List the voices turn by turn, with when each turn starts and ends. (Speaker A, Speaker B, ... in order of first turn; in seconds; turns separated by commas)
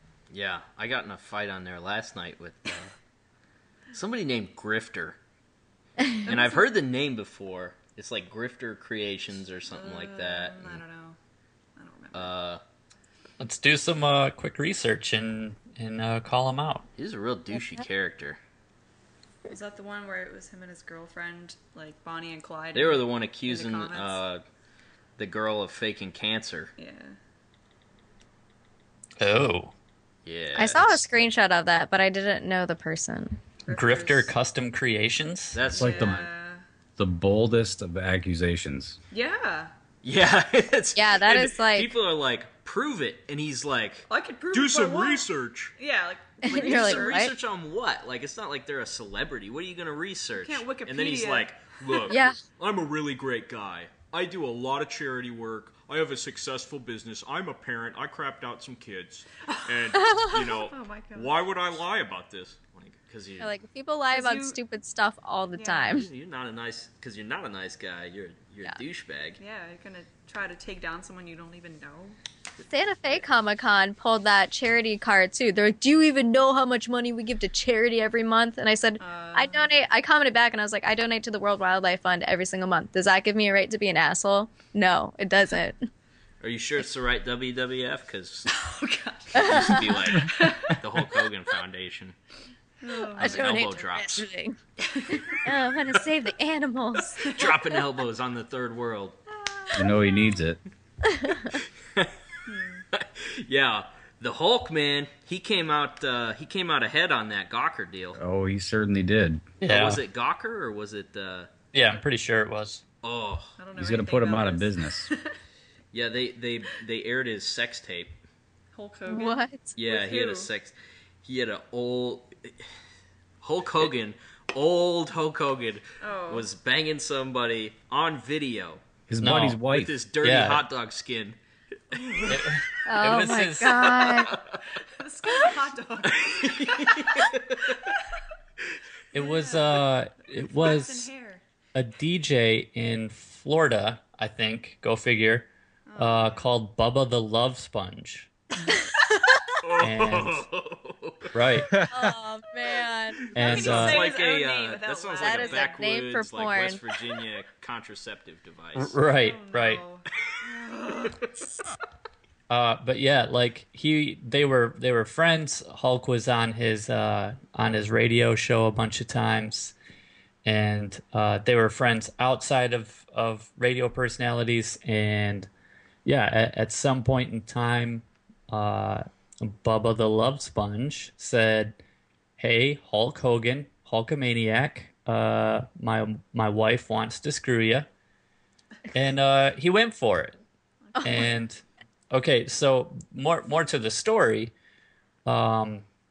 Speaker A: 0.3-2.9, Speaker A: 3.9-5.2, Speaker A: 6.3-10.8, Speaker B: 6.3-6.7, Speaker B: 9.7-11.2, Speaker B: 11.8-12.3, Speaker A: 12.1-12.6, Speaker C: 13.4-16.9, Speaker A: 17.0-18.4, Speaker B: 19.5-24.2, Speaker A: 22.7-24.4, Speaker A: 25.2-26.7, Speaker B: 26.8-27.2, Speaker C: 29.2-29.7, Speaker A: 30.3-31.1, Speaker D: 30.6-33.4, Speaker B: 33.7-34.3, Speaker C: 33.7-35.7, Speaker A: 35.5-36.3, Speaker B: 35.7-36.6, Speaker E: 35.8-36.2, Speaker E: 37.0-39.0, Speaker B: 39.1-39.7, Speaker A: 40.0-45.7, Speaker D: 41.0-41.9, Speaker B: 44.1-47.3, Speaker D: 46.4-47.3, Speaker A: 46.5-63.5, Speaker B: 50.4-52.1, Speaker D: 52.1-52.4, Speaker B: 59.5-61.4, Speaker D: 60.0-60.3, Speaker D: 63.4-66.1, Speaker B: 64.1-64.6, Speaker B: 65.6-65.9, Speaker A: 65.9-69.4, Speaker B: 69.4-72.2, Speaker D: 72.7-85.9, Speaker B: 79.0-79.7, Speaker A: 86.4-88.5, Speaker B: 88.5-90.7, Speaker D: 89.3-89.8, Speaker A: 89.3-92.2, Speaker B: 92.8-93.6, Speaker D: 93.2-94.6, Speaker A: 93.2-94.3, Speaker B: 94.8-95.4, Speaker D: 95.1-97.2, Speaker A: 97.2-99.2, Speaker B: 97.2-97.5, Speaker B: 99.3-100.5, Speaker E: 99.7-100.6, Speaker D: 101.0-101.6, Speaker B: 102.5-102.9, Speaker A: 102.9-108.2, Speaker E: 108.2-109.5, Speaker C: 109.6-110.0, Speaker A: 109.7-111.5, Speaker C: 111.7-112.8, Speaker A: 113.0-113.6, Speaker B: 113.6-115.4, Speaker E: 113.8-115.1, Speaker A: 115.9-118.2, Speaker B: 118.7-120.5, Speaker D: 119.1-119.7, Speaker A: 119.8-122.5, Speaker A: 123.4-128.9, Speaker B: 126.0-126.5, Speaker E: 129.1-130.0, Speaker C: 129.2-129.6, Speaker A: 129.7-131.4, Speaker C: 130.2-130.7, Speaker A: 131.9-132.5, Speaker B: 131.9-132.4, Speaker C: 132.3-134.1, Speaker D: 132.9-134.3, Speaker A: 134.1-134.6, Speaker B: 134.8-138.0, Speaker A: 136.1-137.9, Speaker C: 139.1-141.1, Speaker B: 139.2-141.4, Speaker C: 141.7-148.3, Speaker B: 145.9-146.5, Speaker D: 148.7-149.1, Speaker A: 149.6-151.3, Speaker C: 149.8-150.5, Speaker C: 151.3-151.7, Speaker D: 151.9-153.3, Speaker A: 153.3-159.0, Speaker C: 153.3-154.1, Speaker B: 153.3-155.8, Speaker D: 155.2-156.8, Speaker C: 158.8-159.8, Speaker B: 159.2-161.4, Speaker C: 162.5-169.8, Speaker C: 170.4-175.5, Speaker C: 176.1-181.8, Speaker C: 182.4-187.9, Speaker C: 188.9-190.4, Speaker B: 190.9-191.2, Speaker C: 191.0-194.5, Speaker C: 195.3-195.8